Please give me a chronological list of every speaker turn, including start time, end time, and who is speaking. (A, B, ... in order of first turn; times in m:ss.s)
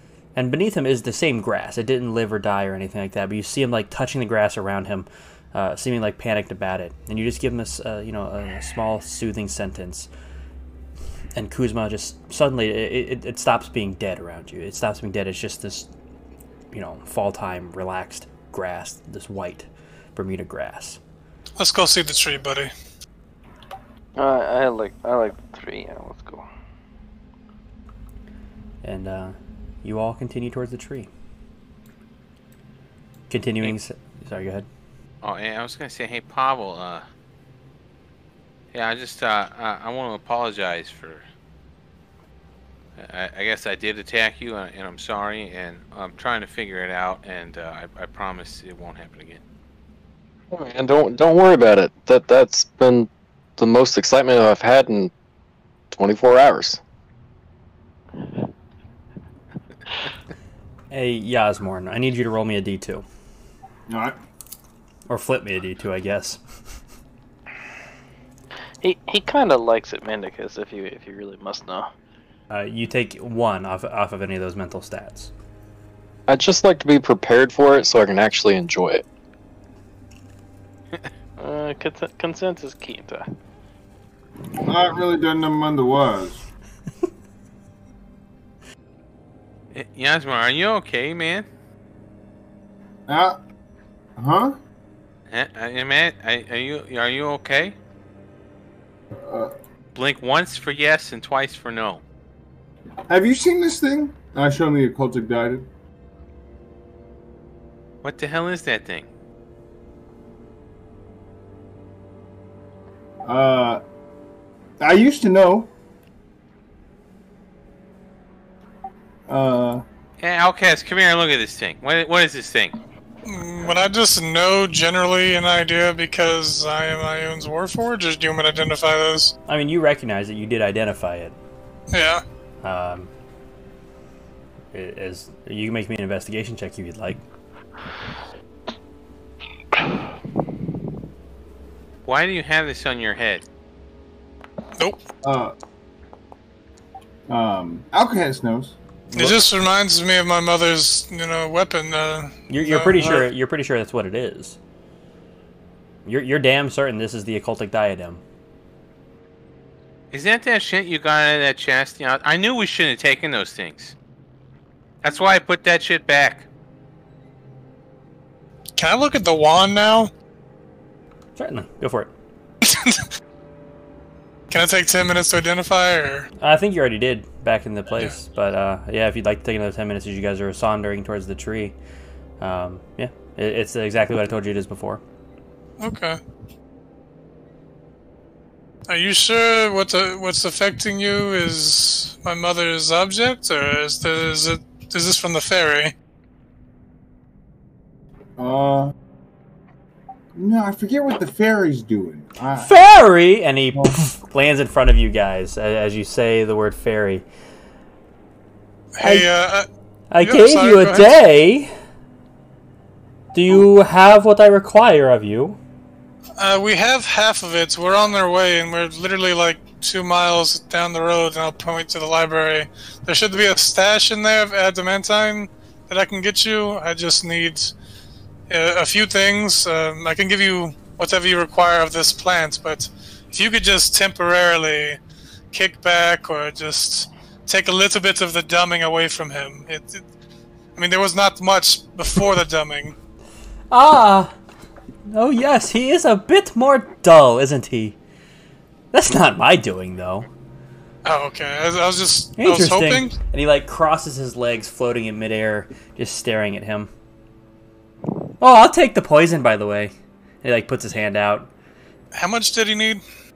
0:00.3-0:10.1 A
0:11.4-0:15.9 A
0:16.7-0:21.0 A
0:21.6-0:22.7 B
0:24.2-0:26.4 C
0:28.8-0:31.1 A
0:33.3-0:34.7 A
0:35.2-0:37.0 D
0:38.7-0:41.2 D
0:43.0-0:49.4 D
0:50.5-0:55.1 E
0:55.9-0:56.8 E
1:00.9-1:03.0 A
1:03.9-1:04.2 F
1:05.1-1:06.4 A
1:08.8-1:11.9 C
1:12.5-1:15.3 A
1:16.3-1:19.0 E
1:21.4-1:23.3 C
1:24.6-1:26.4 F
1:29.7-1:31.5 D
1:33.1-1:33.4 F
1:34.2-1:34.6 F
1:35.3-1:37.8 D
1:39.2-1:39.5 F
1:39.9-1:42.0 D
1:43.1-1:45.7 F
1:48.0-1:49.1 D
1:53.2-1:53.8 F
1:54.8-1:55.7 F
1:59.3-1:59.8 F
2:00.2-2:02.8 D
2:03.2-2:09.3 B
2:09.5-2:11.4 A
2:11.9-2:12.2 B
2:12.6-2:13.1 A
2:14.7-2:17.2 A
2:22.0-2:23.4 D
2:25.2-2:25.5 F
2:27.3-2:28.8 F
2:29.1-2:33.3 B
2:32.5-2:34.6 A
2:36.0-2:38.2 A
2:40.1-2:43.9 D
2:45.0-2:46.4 D
2:48.8-2:50.1 B
2:51.4-2:52.1 A
2:52.6-2:53.0 B
2:54.5-2:56.3 B
2:56.4-3:01.8 A
3:02.4-3:05.0 A
3:05.8-3:06.2 B
3:08.9-3:15.9 B
3:18.4-3:18.9 F
3:20.3-3:22.8 F
3:22.6-3:27.2 A
3:28.9-3:29.7 B
3:29.0-3:29.3 A
3:30.1-3:31.7 A
3:30.2-3:31.2 B
3:33.3-3:35.6 A
3:36.4-3:47.7 B
3:48.5-3:55.0 B
3:55.5-4:00.0 B
4:00.8-4:03.0 B
4:03.7-4:04.3 A
4:05.1-4:08.0 A
4:08.9-4:10.3 A
4:11.0-4:13.2 B
4:12.4-4:16.9 A
4:18.4-4:19.9 A
4:20.4-4:21.5 A
4:22.1-4:23.0 B